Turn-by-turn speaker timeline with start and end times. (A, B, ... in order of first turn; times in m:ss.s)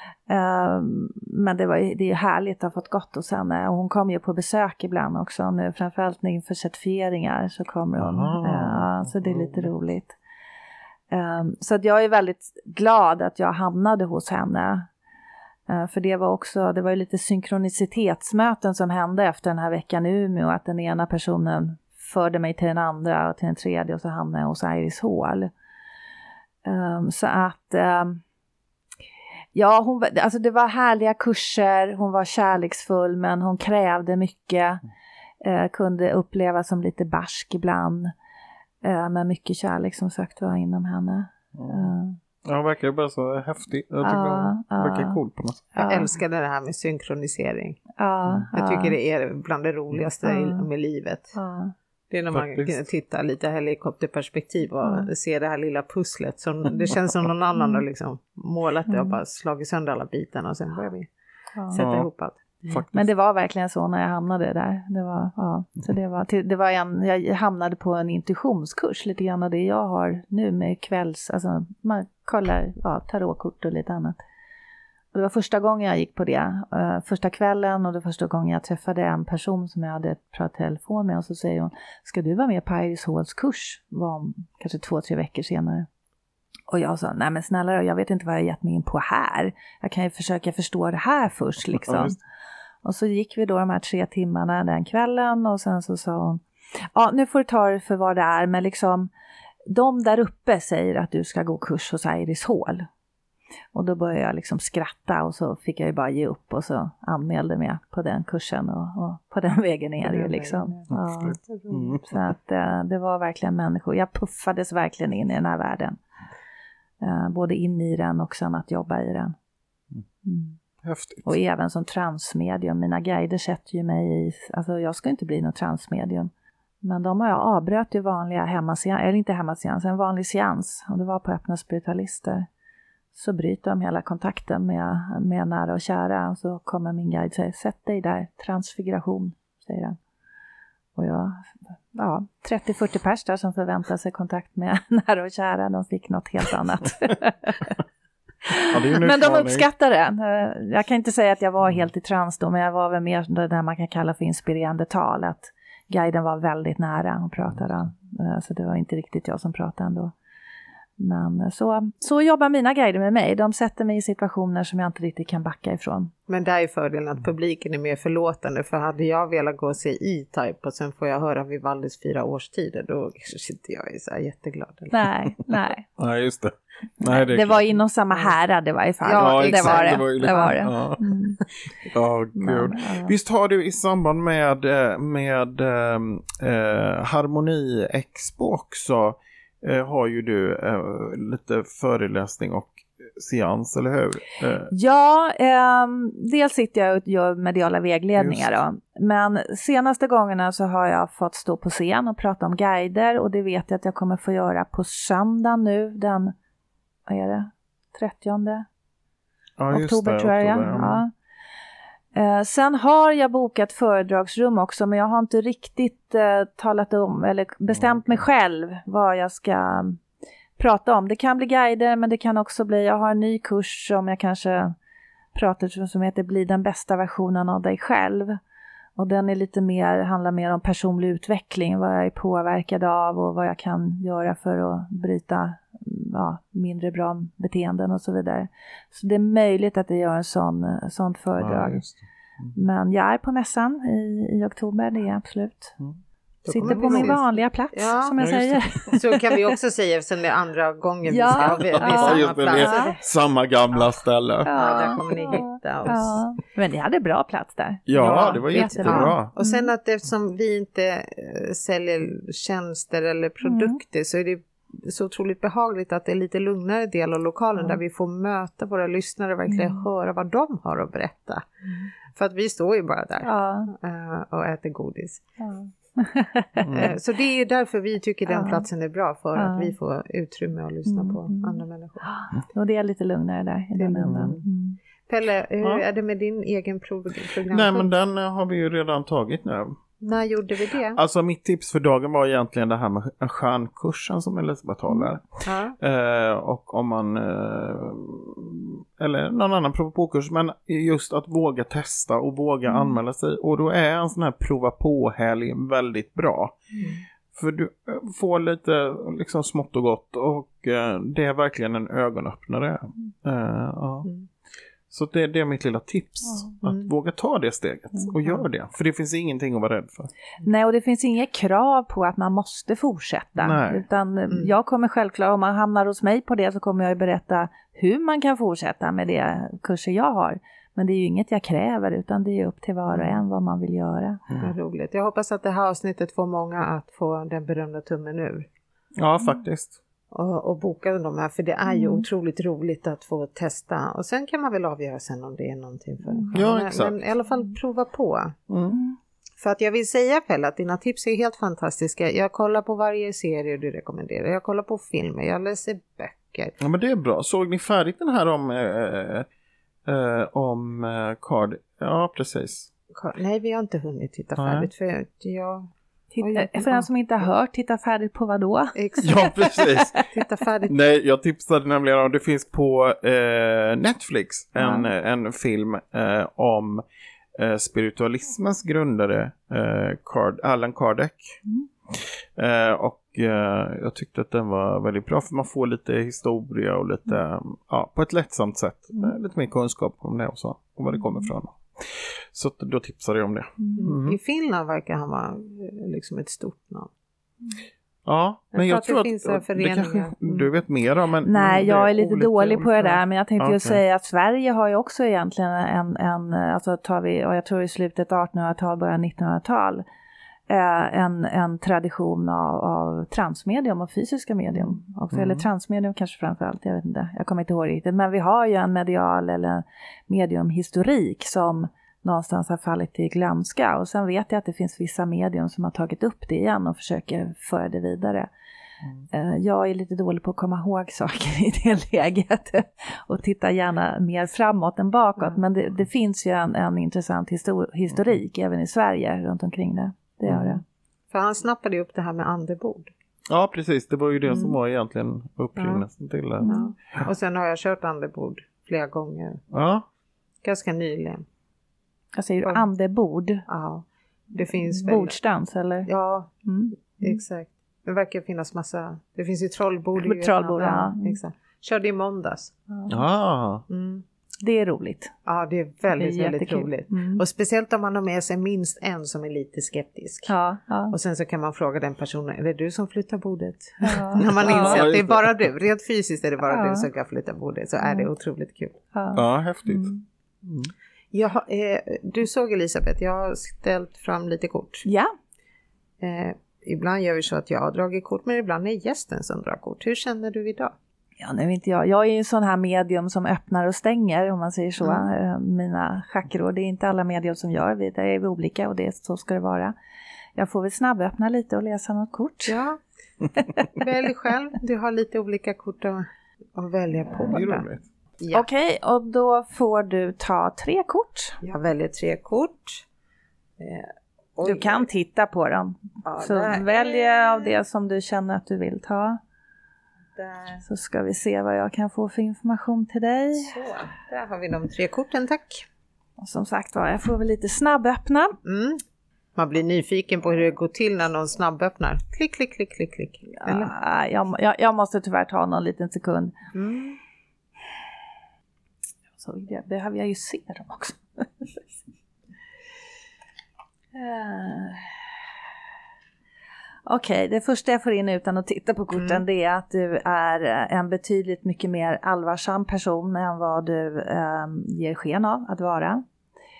0:00.3-0:10.1 A
0:08.0-0:09.7 B
0:11.1-0:14.9 A
0:15.7-0:25.5 A
0:26.6-0:28.2 A
0:29.5-0:34.8 A
0:35.4-0:38.1 A
0:38.8-0:42.2 A
0:41.5-0:41.9 B
0:42.4-0:45.6 B
0:44.0-0:45.2 A
0:45.8-0:46.1 A
0:45.8-0:47.8 C
0:48.0-0:49.0 A
0:48.2-0:48.5 B
0:48.5-0:51.3 C
0:50.2-0:50.7 A
0:51.3-0:51.7 A
0:52.1-1:01.1 C
0:52.3-0:52.8 B
0:54.8-0:55.1 A
0:57.6-0:57.8 A
0:58.9-0:59.2 A
1:01.6-1:01.8 A
1:01.7-1:02.4 C
1:01.8-1:02.1 B
1:02.7-1:03.1 B
1:02.9-1:14.2 A
1:15.1-1:25.9 A
1:26.7-1:32.1 A
1:31.8-1:32.1 B
1:32.8-1:36.4 A
1:36.9-1:39.1 A
1:39.7-1:42.9 A
1:43.7-1:51.4 A
1:50.0-1:50.9 C
1:50.9-1:52.2 B
1:51.4-1:52.0 C
1:52.0-1:56.0 A
1:57.0-1:59.3 A
2:00.2-2:00.6 A
2:00.8-2:01.4 B
2:01.2-2:06.3 A
2:06.8-2:12.5 A
2:13.1-2:20.0 A
2:20.9-2:27.8 A
2:28.5-2:40.1 A
2:28.7-2:29.7 B
2:41.0-2:46.1 A
2:46.3-2:55.1 C
2:54.9-2:55.9 A
2:56.0-2:57.8 B
2:57.0-3:01.4 A
2:59.0-3:00.6 C
2:59.1-3:01.0 B
3:01.9-3:14.7 B
3:02.3-3:03.1 A
3:14.7-3:26.3 A
3:18.2-3:18.6 B
3:27.1-3:28.6 A
3:29.6-3:31.0 B
3:29.7-3:31.1 A
3:32.1-3:40.0 A
3:37.7-3:38.2 B
3:40.6-3:44.7 A
3:45.3-3:48.4 A
3:49.0-4:01.8 A
4:01.4-4:02.5 B
4:02.5-4:05.8 A
4:06.4-4:08.2 C
4:06.5-4:09.4 A
4:06.7-4:07.1 B
4:08.2-4:08.9 B
4:08.9-4:13.0 C
4:11.1-4:13.0 A
4:11.4-4:15.4 B
4:13.7-4:14.0 C
4:14.4-4:19.7 A
4:14.5-4:16.2 C
4:17.9-4:19.3 B
4:18.0-4:31.5 C
4:23.4-4:23.8 A
4:29.5-4:29.8 A
4:32.1-4:35.2 C
4:33.2-4:33.7 A
4:35.4-4:36.9 A
4:36.6-4:36.9 B
4:36.7-4:42.1 C
4:38.3-4:38.6 A
4:39.3-4:39.7 A
4:40.9-4:44.8 A
4:43.8-4:44.4 C
4:44.0-4:44.4 B
4:45.1-4:48.0 C
4:47.5-4:49.8 B
4:50.0-4:51.0 C
4:50.9-5:06.7 B
4:55.4-4:55.8 C
5:02.7-5:03.0 A
5:07.3-5:14.1 B
5:14.9-5:20.1 B
5:16.6-5:16.9 C
5:20.4-5:34.2 A
5:23.4-5:23.8 B
5:32.9-5:33.2 C
5:34.4-5:38.5 C
5:39.0-5:39.8 B
5:40.1-5:48.4 C
5:41.7-5:42.1 A
5:46.3-5:47.0 B
5:48.5-5:48.8 B
5:49.4-5:56.6 C
5:56.6-5:59.3 B
5:59.8-6:02.7 B
6:02.9-6:06.9 C
6:04.4-6:04.7 B
6:06.2-6:10.0 A
6:08.7-6:09.4 C
6:09.0-6:10.0 B
6:10.1-6:10.8 C
6:10.7-6:16.8 B
6:14.6-6:14.9 A
6:17.4-6:34.2 B
6:33.6-6:33.9 A
6:33.7-6:36.9 C
6:38.0-6:43.8 B
6:38.5-6:40.5 C
6:41.2-6:49.8 A
6:50.5-7:08.3 A
6:55.1-6:55.4 B
7:09.1-7:20.6 A
7:20.2-7:20.6 B
7:21.1-7:22.9 C
7:23.3-7:27.1 B
7:24.3-7:24.5 A
7:25.6-7:25.8 C
7:26.4-7:26.7 A
7:26.4-7:29.4 C
7:29.5-7:29.9 B
7:30.4-7:31.2 C
7:32.1-7:33.4 A
7:33.5-7:35.2 C
7:34.4-7:35.9 A
7:35.8-7:36.3 C
7:36.4-7:37.2 A
7:37.0-7:42.5 C
7:40.0-7:41.2 A
7:42.7-7:43.0 A
7:42.9-7:43.6 B
7:43.7-7:44.0 C
7:44.4-7:45.1 A
7:45.2-7:50.3 C
7:45.9-7:47.2 A
7:50.3-7:50.9 A
7:50.9-7:58.8 C
7:53.8-7:54.8 A
7:54.4-7:55.4 B
7:56.4-7:56.9 A
7:57.8-7:58.1 A
7:58.9-8:00.0 A
7:59.1-7:59.9 B
8:00.4-8:00.7 B
8:01.1-8:04.9 C
8:04.8-8:05.1 A
8:06.0-8:10.7 C
8:11.2-8:19.7 A
8:14.8-8:15.1 C
8:20.4-8:22.6 A
8:22.5-8:22.8 C
8:23.7-8:27.6 C
8:27.2-8:27.8 B
8:28.2-8:28.5 C
8:28.3-8:31.4 A
8:31.4-8:32.8 C
8:33.6-8:34.9 C
8:34.4-8:39.2 A
8:36.0-8:37.6 C
8:40.2-8:40.6 C
8:40.6-8:43.5 A
8:43.3-8:45.6 C
8:46.2-8:48.4 A
8:48.4-8:48.8 C
8:49.4-8:53.7 C
8:53.4-8:56.3 A
8:56.5-8:57.0 C
8:59.2-9:01.5 A
9:03.9-9:05.1 A
9:06.8-9:16.0 A
9:08.9-9:09.2 C